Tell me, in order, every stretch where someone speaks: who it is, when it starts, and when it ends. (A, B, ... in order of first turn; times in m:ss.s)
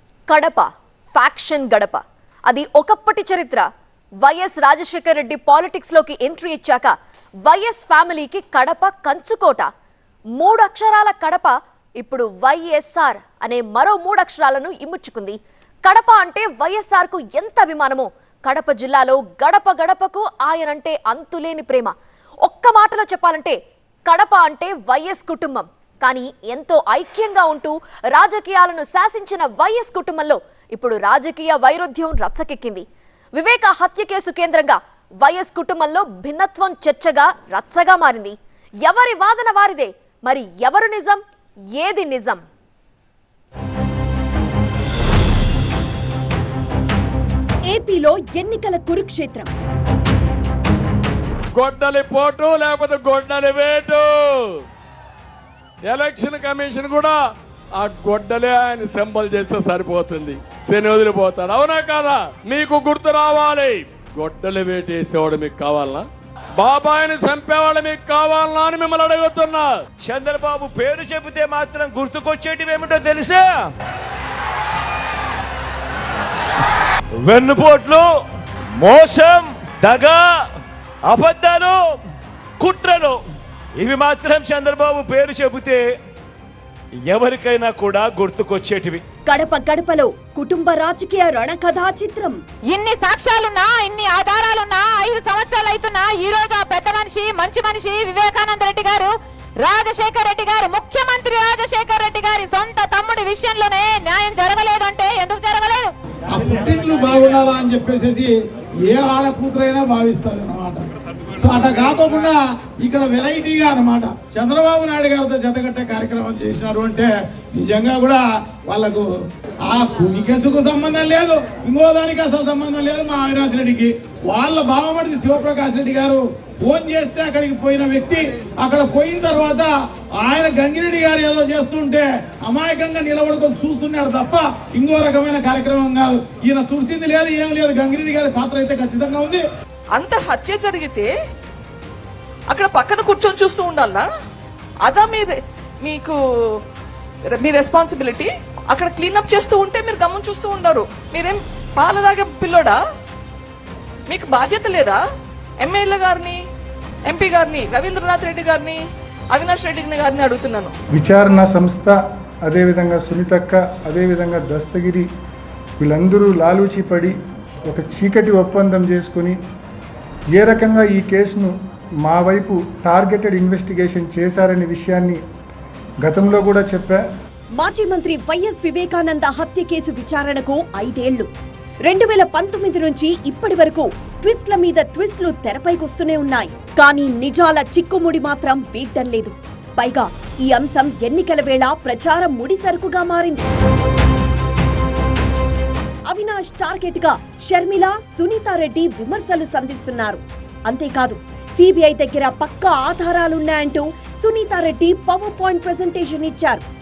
0:00.3-0:03.7 A
0:04.2-0:06.9 A
0:07.5-0:09.7 A
0:10.4-0:21.9 A
0:22.4-0:23.6 A
0:24.1-0:32.8 A
0:33.4-0:41.2 A
0:41.8-0:42.4 A
0:47.7-0:49.5 B
0:51.6-0:54.4 C
0:55.8-0:57.2 C
0:57.8-1:06.1 C
1:06.6-1:09.7 C
1:10.0-1:13.7 D
1:17.2-1:18.1 D
1:18.8-1:20.2 D
1:21.1-1:21.8 D
1:22.6-1:23.2 D
1:23.8-1:25.8 D
1:27.1-1:29.0 D
1:29.3-1:32.4 B
1:32.7-1:45.9 E
1:46.3-1:48.3 F
1:48.8-1:50.9 F
1:51.4-1:59.1 F
1:59.7-2:19.4 F
2:20.0-2:21.1 G
2:22.5-2:24.1 G
2:24.8-2:26.2 G
2:27.3-2:32.8 G
2:34.1-2:35.0 G
2:35.6-2:36.4 G
2:37.1-2:38.8 G
2:39.3-2:40.7 G
2:40.9-2:45.1 H
2:45.8-2:47.2 H
2:47.7-2:49.4 H
2:50.4-2:55.2 H
2:56.0-2:57.1 H
2:57.6-3:01.3 B
3:01.9-3:13.5 B
3:16.1-3:26.6 B